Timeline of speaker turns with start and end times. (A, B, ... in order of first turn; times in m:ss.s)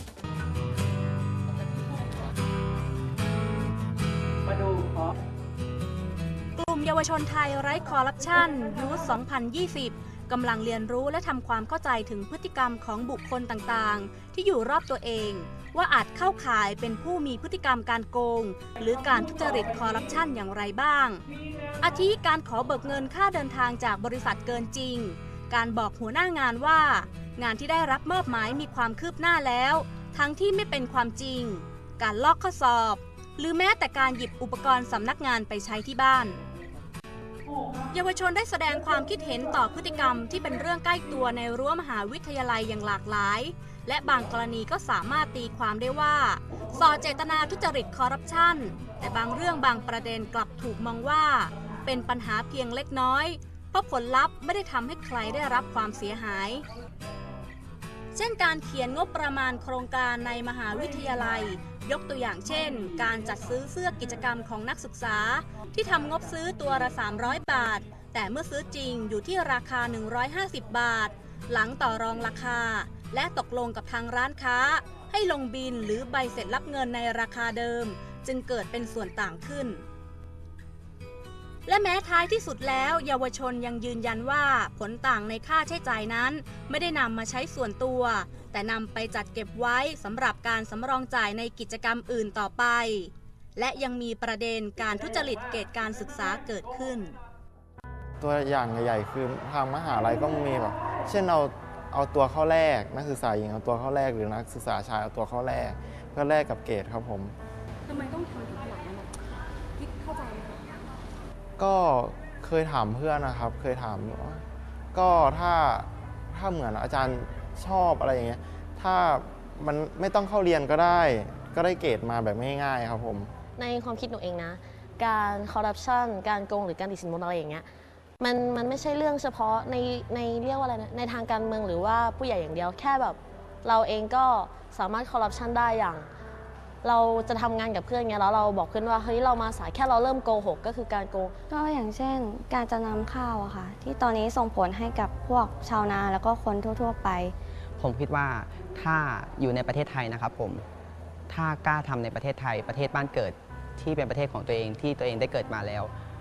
0:06.6-0:21.2 A
0:21.8-0:36.4 A
0:37.9-0:56.6 A
0:58.1-1:19.8 A
1:21.7-1:37.2 A
1:38.2-1:47.3 B
1:47.9-1:49.1 C
1:49.8-1:50.6 C
1:51.6-1:54.4 B
1:54.9-2:03.3 B
2:03.6-2:16.1 D
2:16.8-2:21.4 D
2:21.5-2:27.3 E
2:27.8-2:30.6 F
2:31.3-2:35.9 F